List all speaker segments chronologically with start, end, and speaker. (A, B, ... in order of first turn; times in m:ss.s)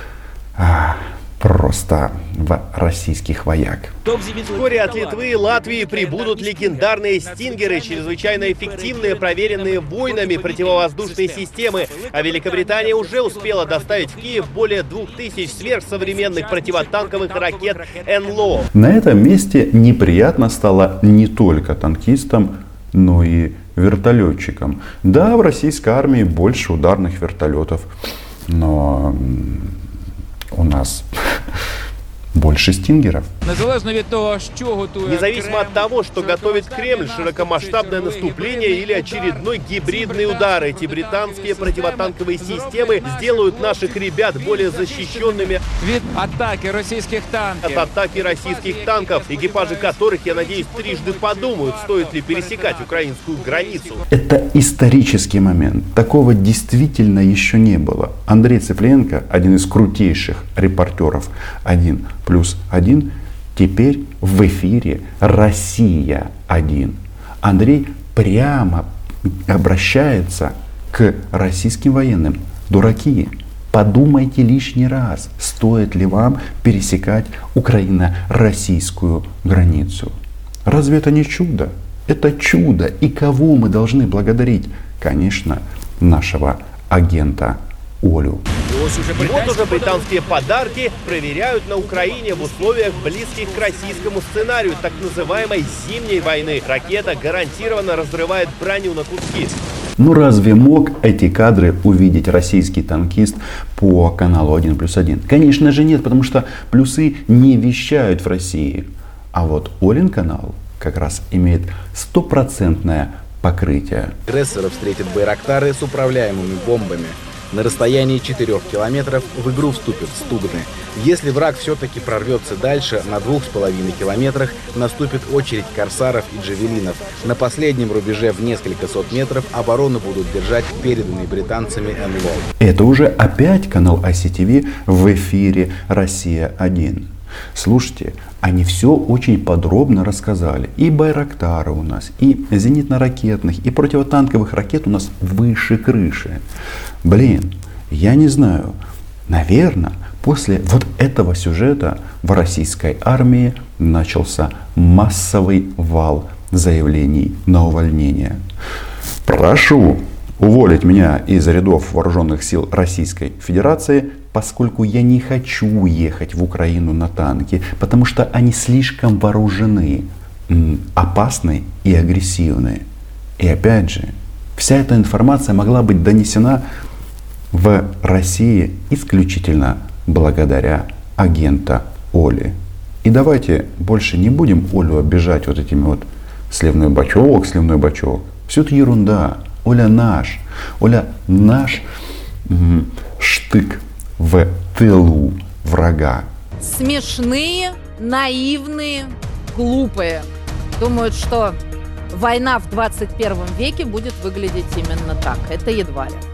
0:00.6-0:04.0 A
0:04.1-0:14.5 B
0:04.5-0:18.7 C
0:15.1-0:18.4 B
0:18.7-0:27.9 A
0:28.5-0:29.8 A
0:30.5-0:31.1 A
0:32.3-0:33.3 A
0:33.5-0:54.0 B
0:35.1-0:45.6 C
0:47.6-0:54.0 C
0:54.1-1:08.9 A
1:09.5-1:20.2 A
1:20.7-1:28.4 A
1:28.9-1:30.0 B
1:29.1-1:39.6 C
1:33.4-1:33.7 B
1:40.0-1:54.1 A
1:54.3-2:12.4 D
2:12.6-2:26.4 A
2:27.0-2:28.8 A
2:29.3-2:38.4 A
2:39.3-2:52.8 A
2:53.4-2:56.6 A
2:57.5-3:11.9 A
3:12.5-3:16.3 A
3:16.6-3:21.6 E
3:22.1-3:26.2 E